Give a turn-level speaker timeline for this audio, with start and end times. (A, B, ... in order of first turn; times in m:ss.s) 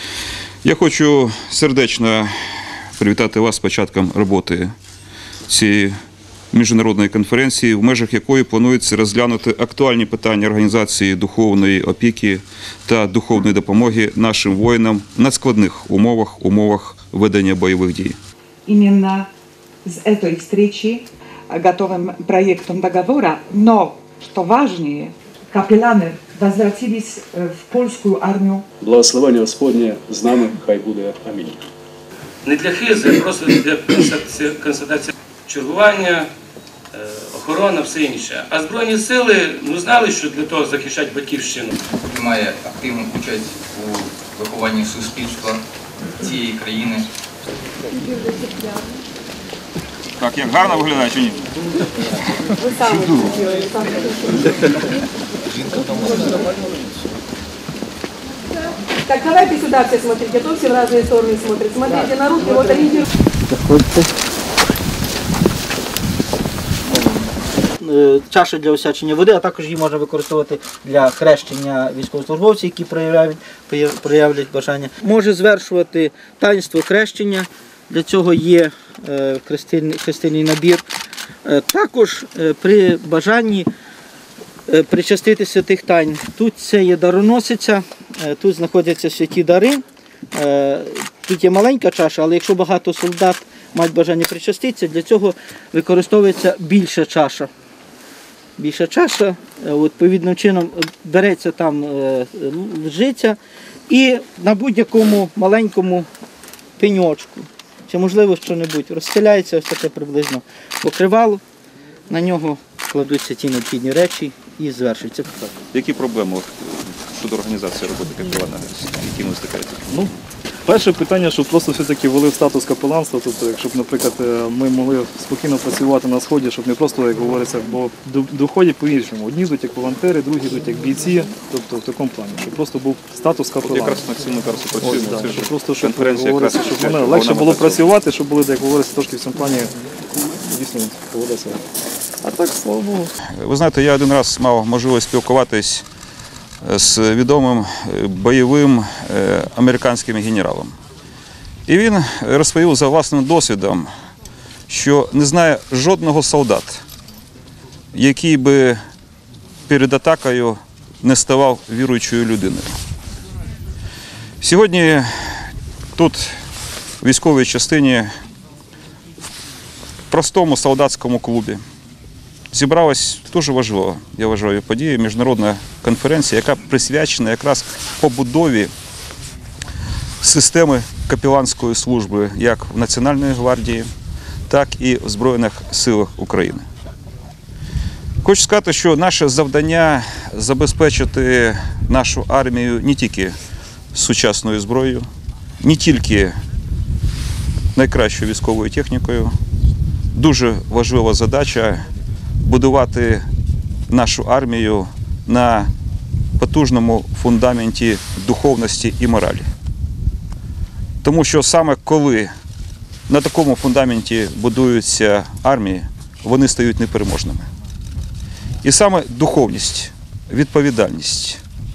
0:00.6-0:02.3 A
0:02.9-0:04.7 A
0:05.5-0:05.9 A
0:06.5-0:18.2 A
0:18.7-0:19.3 B
0:19.8-0:28.6 B
0:28.8-0:31.7 C
0:32.4-0:36.3 D
0:36.9-0:41.8 D
0:41.8-0:45.6 E
0:46.2-0:47.1 E
0:48.2-0:48.7 F
0:50.2-0:51.5 A
0:52.6-0:54.6 F
0:56.0-0:56.4 F
0:59.0-1:03.0 F
1:03.6-1:03.9 G
1:07.8-1:20.8 G
1:21.4-1:23.7 G
1:24.7-1:29.8 G
1:30.3-1:37.5 G
1:38.6-1:43.4 G
1:43.9-1:46.1 G
1:46.8-1:51.4 G
1:52.1-1:55.5 G
1:55.7-1:59.9 A
2:00.7-2:14.0 H
2:13.6-2:17.8 A
2:14.8-2:21.6 H
2:22.2-2:23.1 H
2:23.2-2:25.8 A
2:26.6-2:30.8 A
2:31.7-2:33.9 A
2:34.7-2:36.8 A
2:37.9-2:38.8 A
2:39.7-2:42.8 A
2:44.4-2:46.3 A
2:47.0-2:48.1 A
2:50.1-2:51.6 A
2:52.5-2:58.7 A
3:00.2-3:03.9 A
3:04.5-3:06.7 A
3:08.2-3:13.4 A
3:13.9-3:15.1 A
3:15.6-3:16.4 A
3:17.8-3:19.3 A
3:20.1-3:21.8 A
3:22.4-3:23.2 A
3:23.9-3:25.7 A
3:26.4-3:29.5 A
3:31.0-3:32.3 A
3:33.1-3:37.5 A
3:38.6-3:41.4 A